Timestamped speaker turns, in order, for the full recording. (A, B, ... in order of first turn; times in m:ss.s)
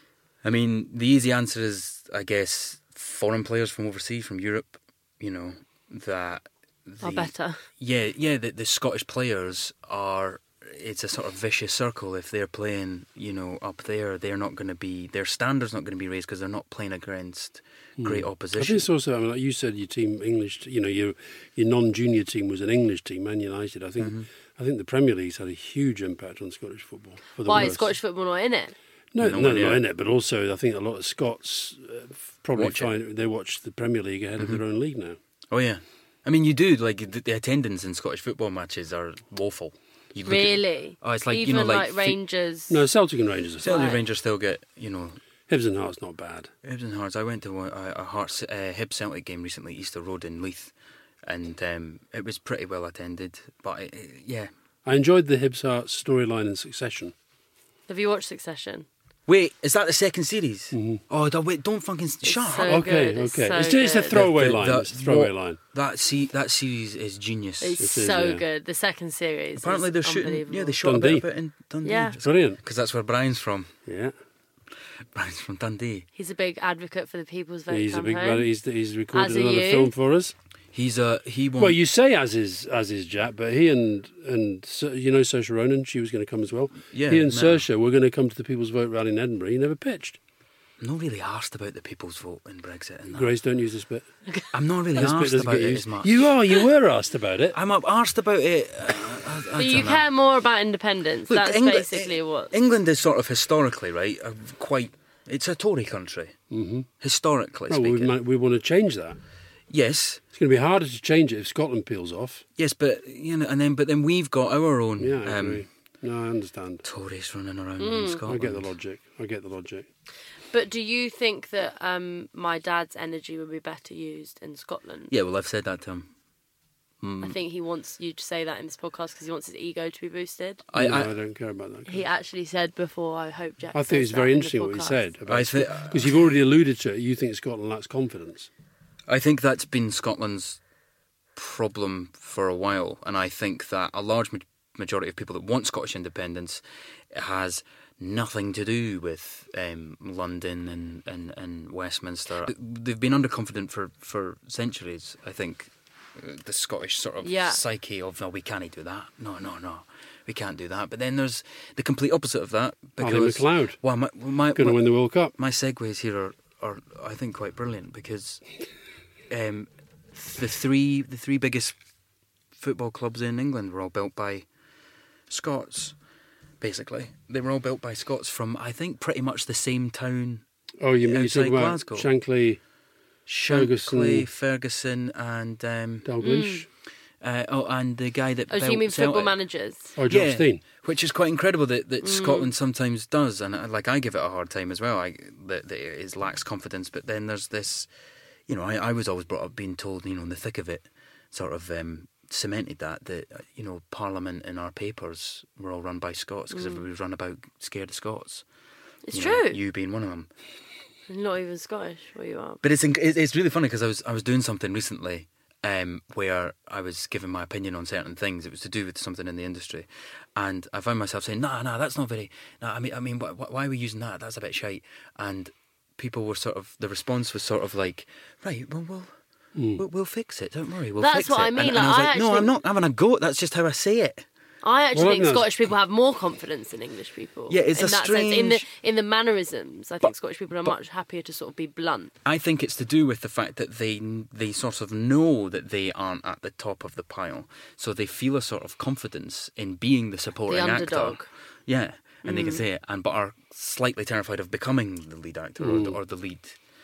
0:00.4-0:18.8 A
0:07.0-0:07.6 B
0:18.0-0:27.9 C
0:24.0-0:24.3 A
0:27.4-0:28.7 B
0:29.1-0:35.2 C
0:29.2-0:29.8 A
0:32.5-0:32.9 A
0:35.5-0:42.2 A
0:40.3-0:42.8 B
0:42.7-0:43.9 C
0:43.6-0:45.2 A
0:43.6-0:44.0 B
0:45.5-0:46.5 C
0:46.6-0:50.7 A
0:51.2-0:54.5 A
0:54.8-0:57.1 C
0:57.9-0:58.8 B
0:59.3-1:02.8 A
1:00.7-1:01.0 C
1:02.2-1:04.2 B
1:02.6-1:05.6 C
1:04.1-1:07.8 A
1:07.6-1:10.8 B
1:07.8-1:08.4 C
1:09.6-1:13.7 A
1:10.8-1:11.2 C
1:11.8-1:12.2 B
1:12.2-1:12.6 C
1:13.8-1:14.1 C
1:15.1-1:16.0 A
1:16.2-1:18.5 B
1:17.7-1:20.3 C
1:19.1-1:19.9 B
1:20.7-1:21.8 A
1:21.6-1:30.2 C
1:26.9-1:27.6 A
1:30.8-1:33.3 A
1:33.1-1:34.0 C
1:34.5-1:36.3 A
1:35.0-1:37.6 C
1:37.5-1:40.0 A
1:39.6-1:42.5 B
1:41.3-1:46.3 A
1:46.5-1:46.9 C
1:47.0-1:48.1 A
1:47.7-1:49.2 C
1:49.7-1:50.2 A
1:50.3-1:52.4 C
1:52.6-1:55.6 A
1:55.0-1:56.8 C
1:56.8-1:58.7 A
1:57.8-1:58.2 B
1:58.3-1:59.9 C
2:00.5-2:05.1 B
2:05.1-2:06.1 A
2:07.0-2:07.4 A
2:07.2-2:10.6 B
2:10.7-2:11.1 A
2:10.7-2:12.0 C
2:11.8-2:15.0 B
2:13.7-2:18.5 C
2:15.3-2:16.2 A
2:19.1-2:20.6 A
2:21.4-2:26.6 A
2:27.1-2:44.8 A
2:37.2-2:37.6 B
2:43.0-2:43.8 C
2:44.5-2:45.3 C
2:45.4-2:48.4 A
2:49.3-2:51.7 A
2:52.6-2:54.4 A
2:55.3-2:55.9 A
2:56.6-3:00.4 A
3:00.8-3:02.6 C
3:01.0-3:02.1 A
3:03.3-3:06.1 A
3:03.5-3:04.3 C
3:06.0-3:06.7 C
3:06.2-3:06.6 B
3:07.2-3:09.4 A
3:08.5-3:09.9 B
3:10.0-3:10.6 C
3:10.1-3:17.9 A
3:12.0-3:12.5 B
3:18.5-3:28.4 A
3:26.5-3:26.8 B
3:29.0-3:29.6 B
3:29.1-3:30.3 A
3:31.1-3:32.6 B
3:32.6-3:49.1 A
3:49.5-3:49.8 C
3:49.8-3:54.2 A
3:51.0-3:52.5 B
3:54.6-4:02.1 B
3:54.9-3:55.5 C
3:57.5-3:58.6 A
4:02.2-4:16.6 A
4:10.5-4:11.3 B
4:12.2-4:12.6 B
4:15.6-4:16.0 C